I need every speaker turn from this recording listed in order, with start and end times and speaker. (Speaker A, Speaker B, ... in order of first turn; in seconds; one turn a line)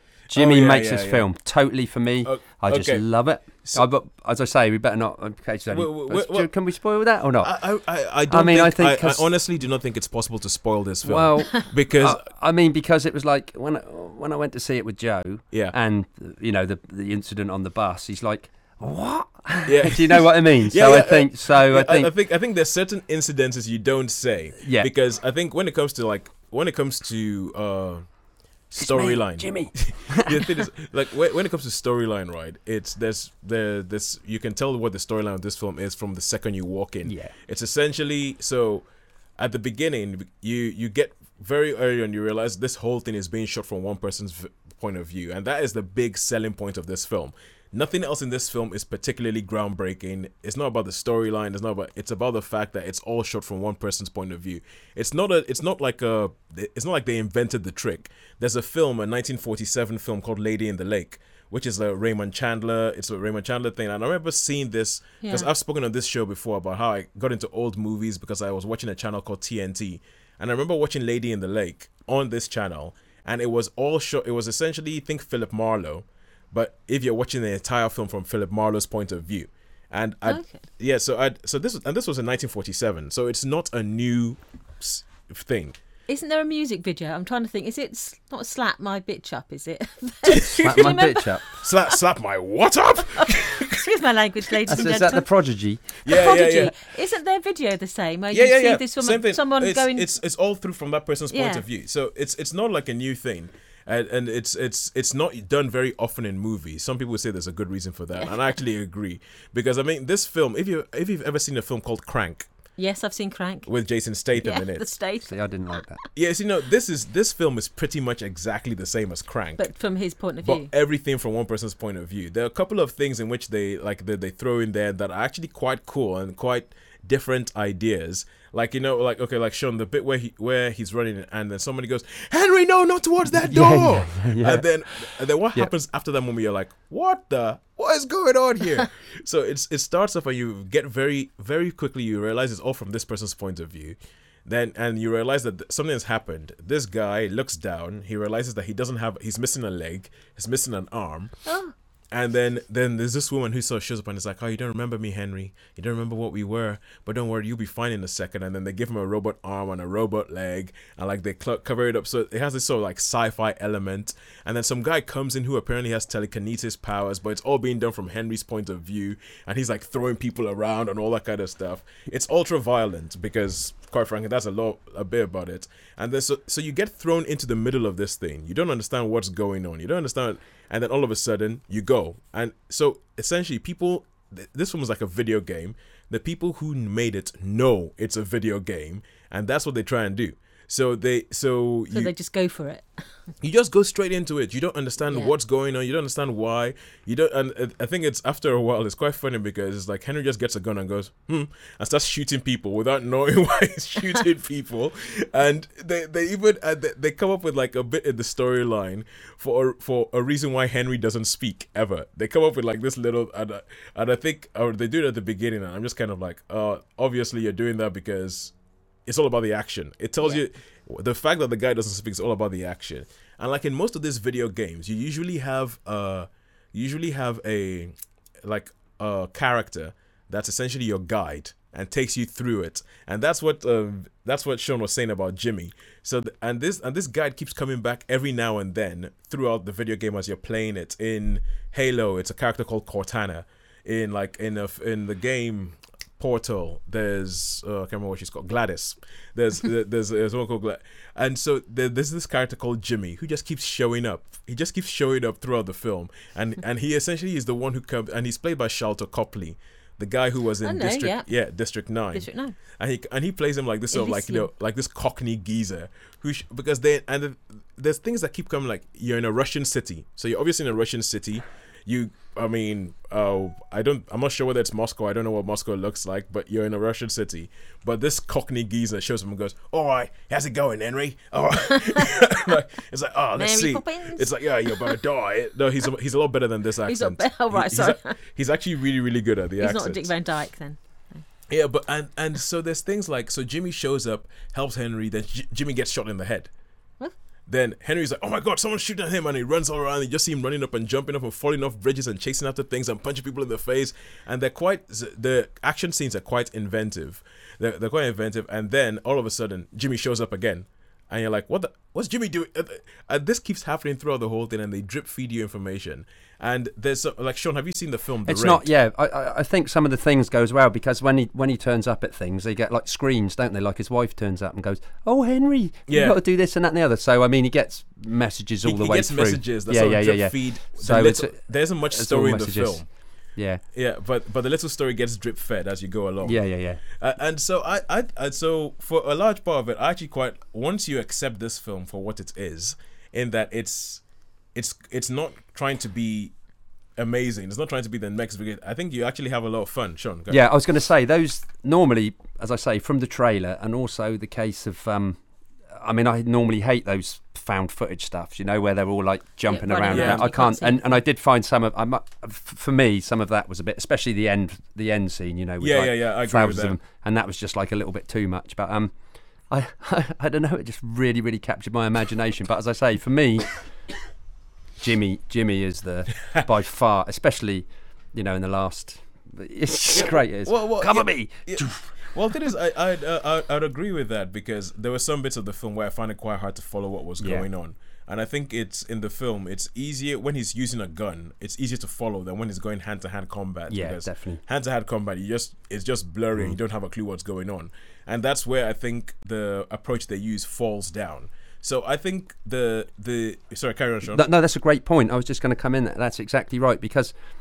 Speaker A: 0.3-1.3
Speaker B: 0.3-7.5
Speaker A: 2.2-3.8
Speaker A: 5.7-6.5
Speaker A: 7.4-12.2
Speaker B: 8.3-9.2
Speaker B: 11.0-22.1
Speaker A: 19.7-28.1
Speaker B: 24.6-24.9
Speaker A: 28.7-38.9
Speaker B: 28.8-30.7
Speaker B: 37.0-37.3
Speaker A: 39.4-85.8
Speaker C: 65.2-65.5
Speaker C: 80.2-80.6
Speaker C: 86.1-92.0
Speaker A: 90.3-91.0
Speaker B: 90.6-91.4
Speaker A: 91.6-93.9
Speaker C: 93.2-95.3
Speaker B: 94.7-95.9
Speaker C: 96.0-100.1
Speaker A: 96.0-96.9
Speaker A: 98.3-112.5
Speaker C: 101.3-101.7
Speaker C: 112.8-113.7
Speaker A: 113.7-114.9
Speaker C: 114.4-115.3
Speaker B: 115.3-116.0
Speaker A: 116.2-119.7
Speaker C: 119.6-120.7
Speaker A: 120.4-151.5
Speaker B: 133.3-135.7
Speaker C: 151.5-151.7
Speaker A: 152.1-192.1
Speaker C: 191.9-193.1
Speaker A: 193.4-218.5
Speaker A: 219.1-227.9
Speaker A: 228.4-290.1
Speaker C: 260.6-261.3
Speaker C: 262.1-262.6
Speaker C: 263.9-264.5
Speaker C: 281.7-282.3
Speaker C: 283.4-284.9
Speaker C: 286.9-288.1
Speaker C: 289.6-291.2
Speaker A: 291.5-296.5
Speaker A: 297.5-318.7
Speaker B: 318.3-333.6
Speaker A: 325.9-326.2
Speaker A: 328.6-332.9
Speaker A: 333.7-344.0
Speaker B: 336.2-336.8
Speaker A: 344.5-346.3
Speaker A: 347.0-350.4
Speaker B: 350.3-368.9
Speaker C: 359.5-360.9
Speaker A: 359.9-360.2
Speaker A: 365.6-366.8
Speaker B: 369.5-373.6
Speaker B: 374.8-382.1
Speaker A: 379.9-404.2
Speaker B: 387.2-387.5
Speaker B: 393.7-394.4
Speaker B: 404.1-407.1